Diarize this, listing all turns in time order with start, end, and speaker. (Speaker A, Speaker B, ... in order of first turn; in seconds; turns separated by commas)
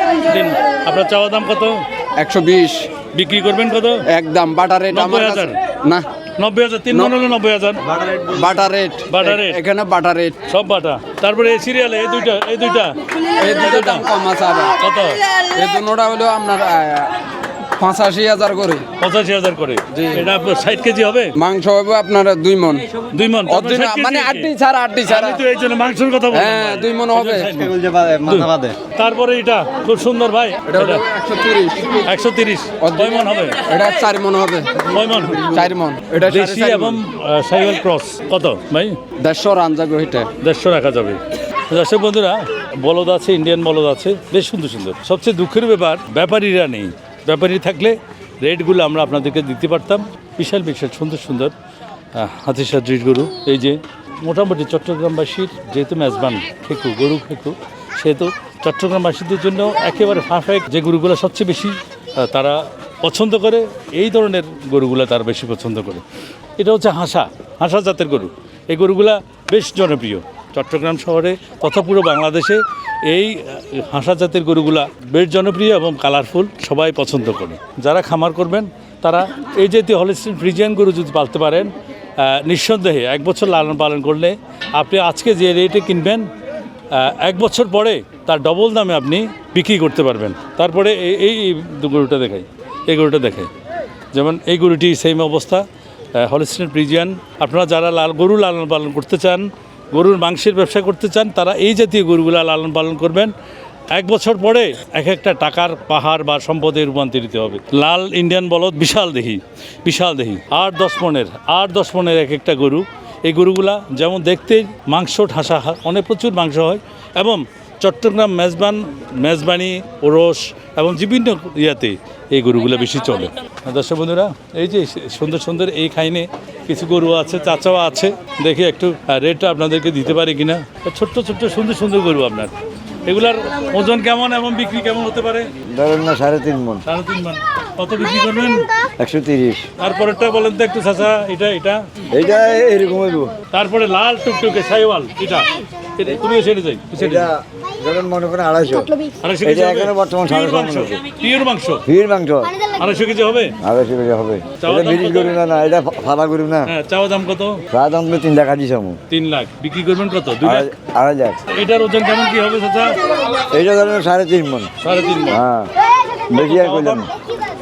Speaker A: 0.2-1.9, Speaker B: 2.2-2.9, Speaker A: 3.1-4.0, Speaker B: 4.1-6.0, Speaker A: 4.9-5.6, Speaker A: 6.4-7.8, Speaker B: 8.0-10.4, Speaker A: 9.1-9.6, Speaker A: 10.5-14.1, Speaker B: 13.4-14.8, Speaker A: 14.8-15.2, Speaker B: 15.5-17.1, Speaker B: 17.8-18.9, Speaker A: 19.0-21.4, Speaker B: 19.9-20.3, Speaker B: 21.4-22.9, Speaker A: 23.1-24.5, Speaker B: 23.5-25.4, Speaker A: 25.1-31.0, Speaker B: 26.3-27.5, Speaker C: 27.6-28.8, Speaker B: 30.7-32.0, Speaker A: 32.0-33.6, Speaker B: 32.8-37.0, Speaker A: 34.9-35.5, Speaker A: 36.2-39.0, Speaker B: 39.2-40.3, Speaker A: 40.4-51.5, Speaker A: 52.1-66.0, Speaker A: 66.6-86.3, Speaker A: 86.9-93.5, Speaker A: 94.1-103.3, Speaker A: 103.9-132.5, Speaker A: 133.0-135.5, Speaker C: 135.7-136.8, Speaker A: 136.9-138.7, Speaker C: 139.0-139.7, Speaker A: 139.8-141.9, Speaker C: 142.1-143.3, Speaker A: 143.5-147.3, Speaker C: 147.0-151.0, Speaker A: 149.2-151.8, Speaker C: 151.8-152.6, Speaker A: 152.7-153.6, Speaker C: 153.6-156.7, Speaker A: 154.6-155.4, Speaker A: 156.7-157.6, Speaker C: 157.7-159.0, Speaker A: 159.1-160.7, Speaker C: 160.4-161.4, Speaker A: 161.5-163.0, Speaker C: 163.4-164.7, Speaker A: 164.8-165.4, Speaker C: 165.3-165.7, Speaker A: 166.3-167.1, Speaker C: 166.3-167.1